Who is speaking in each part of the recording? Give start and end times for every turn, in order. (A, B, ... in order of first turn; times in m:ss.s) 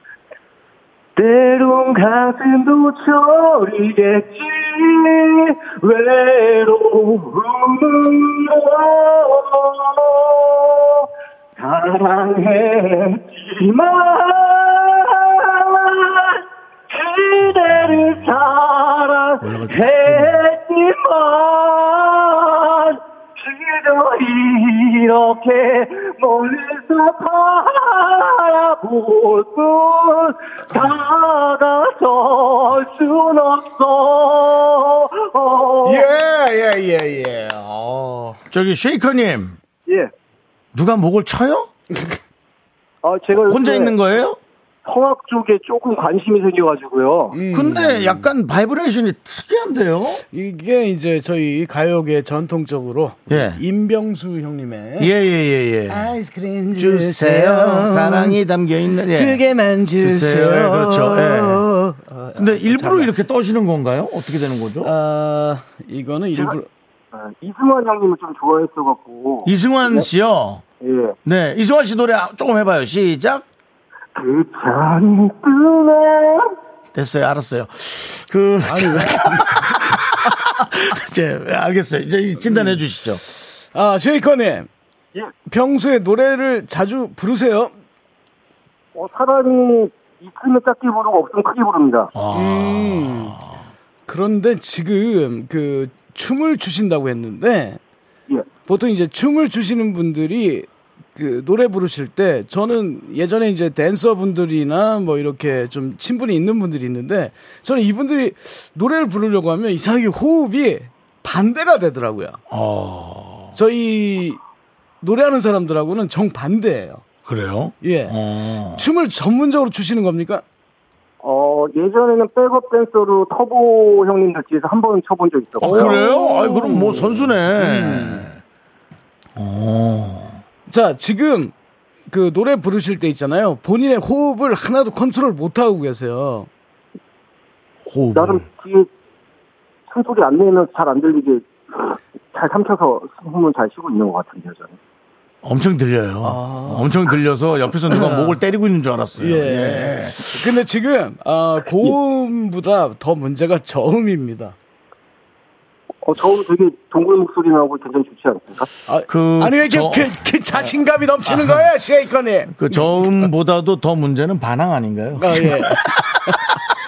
0:01.2-0:36.1 A
0:17.4-0:18.2 B
0:19.4-0:20.5 B
0:35.8-0:38.4 C
0:38.5-0:39.6 B
0:40.7-0:41.7 B
0:41.9-0:42.2 C
0:43.0-0:44.0 A
0:43.3-0:44.4 B
0:44.8-0:47.4 A
0:47.3-0:48.3 C
0:47.5-0:50.2 B
0:50.3-0:55.1 C
0:53.3-0:53.6 B
0:55.0-0:56.1 B
0:55.9-0:58.4 C
0:56.8-0:59.4 B
0:59.1-1:03.1 C
1:00.0-1:01.6 B
1:02.4-1:04.9 B
1:04.8-1:06.7 C
1:07.1-1:10.0 A
1:09.4-1:10.6 B
1:10.8-1:11.2 A
1:11.2-1:13.4 B
1:14.1-1:16.5 A
1:16.9-1:23.2 B
1:18.6-1:19.9 C
1:22.4-1:22.8 C
1:23.7-1:24.7 C
1:25.5-1:27.7 C
1:28.9-1:32.1 A
1:32.1-1:33.6 B
1:32.3-1:33.4 C
1:34.1-1:37.8 C
1:38.7-1:52.4 C
1:52.5-1:53.6 B
1:53.5-1:54.4 C
1:55.0-1:57.0 C
1:57.2-1:58.8 B
1:57.8-1:58.1 C
1:58.7-2:00.4 C
2:01.2-2:06.2 A
2:05.6-2:08.4 B
2:05.6-2:08.3 C
2:09.4-2:10.4 B
2:10.7-2:11.5 C
2:12.1-2:16.5 C
2:17.8-2:18.4 B
2:18.1-2:18.9 A
2:19.9-2:24.8 A
2:25.4-2:30.4 B
2:26.2-2:27.0 C
2:27.9-2:28.4 C
2:29.2-2:34.6 C
2:36.0-2:38.7 A
2:38.9-2:43.3 C
2:39.1-2:40.2 B
2:41.3-2:41.6 B
2:42.5-2:46.3 B
2:45.1-2:46.4 C